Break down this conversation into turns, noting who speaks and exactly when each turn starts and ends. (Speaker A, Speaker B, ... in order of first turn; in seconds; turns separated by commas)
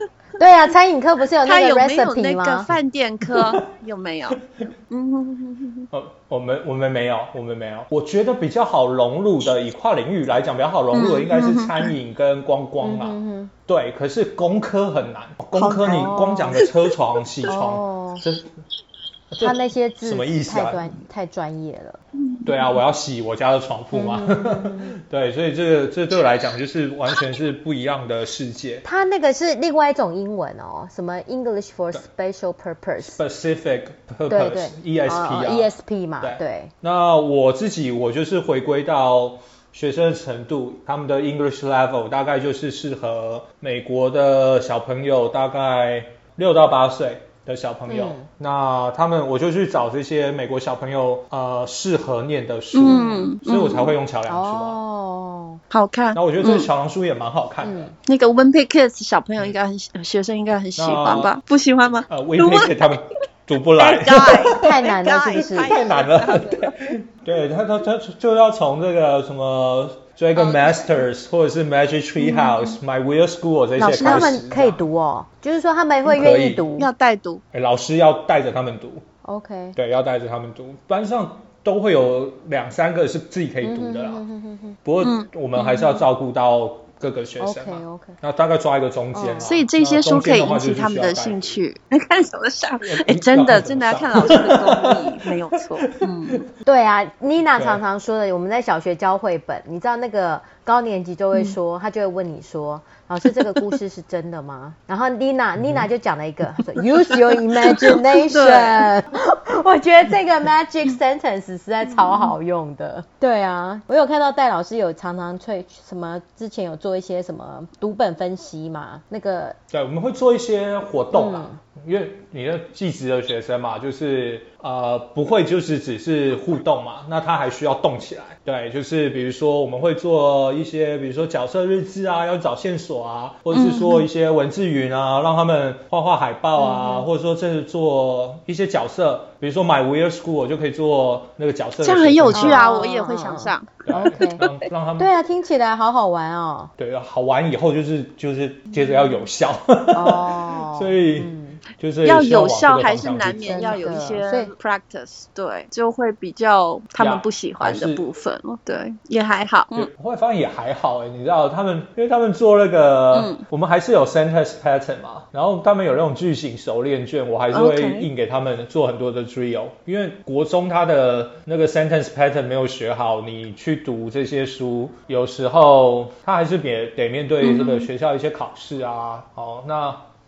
Speaker A: 0.4-2.7, Speaker B: 1.4-5.9, Speaker C: 2.7-3.6, Speaker C: 5.9-18.5, Speaker B: 10.9-11.9, Speaker A: 12.8-13.5, Speaker B: 15.5-16.1, Speaker A: 15.8-16.6, Speaker A: 17.4-18.2, Speaker C: 19.3-21.0, Speaker A: 19.4-22.0, Speaker B: 22.2-22.5, Speaker C: 22.4-28.8, Speaker A: 23.9-24.9, Speaker A: 28.8-33.2, Speaker C: 33.0-35.7, Speaker A: 34.3-36.7, Speaker C: 36.2-54.8, Speaker A: 47.9-48.3, Speaker B: 52.7-53.9, Speaker A: 52.8-53.3, Speaker A: 54.3-55.6, Speaker B: 55.7-56.7, Speaker C: 56.1-57.9, Speaker A: 57.6-57.9, Speaker B: 58.1-62.9, Speaker C: 60.8-61.4, Speaker C: 62.1-64.6, Speaker B: 63.8-66.9, Speaker A: 64.5-65.8, Speaker C: 65.5-74.8, Speaker B: 70.3-71.0, Speaker B: 72.2-72.8, Speaker B: 73.8-74.3, Speaker A: 73.8-76.9, Speaker C: 76.0-76.7, Speaker B: 76.8-77.4, Speaker C: 77.5-79.0, Speaker A: 79.2-79.8, Speaker C: 79.7-84.2, Speaker A: 83.6-84.8, Speaker C: 84.8-91.6, Speaker B: 85.0-85.9, Speaker A: 87.4-88.2, Speaker A: 89.1-89.6, Speaker B: 89.4-96.4, Speaker C: 92.8-96.4, Speaker A: 96.6-119.5, Speaker C: 97.5-97.8, Speaker C: 105.6-105.9, Speaker B: 107.6-108.9, Speaker B: 112.0-112.3, Speaker C: 119.7-142.6, Speaker A: 121.1-121.6, Speaker B: 133.5-134.1, Speaker A: 136.6-137.1, Speaker B: 141.8-143.8, Speaker A: 142.3-144.5, Speaker C: 143.8-145.1, Speaker A: 145.0-146.7, Speaker C: 146.8-153.9, Speaker A: 149.9-151.6, Speaker B: 152.0-159.9, Speaker A: 153.4-154.5, Speaker C: 157.0-158.0, Speaker C: 159.7-180.1, Speaker B: 163.1-163.4, Speaker B: 167.5-168.1, Speaker B: 177.4-177.9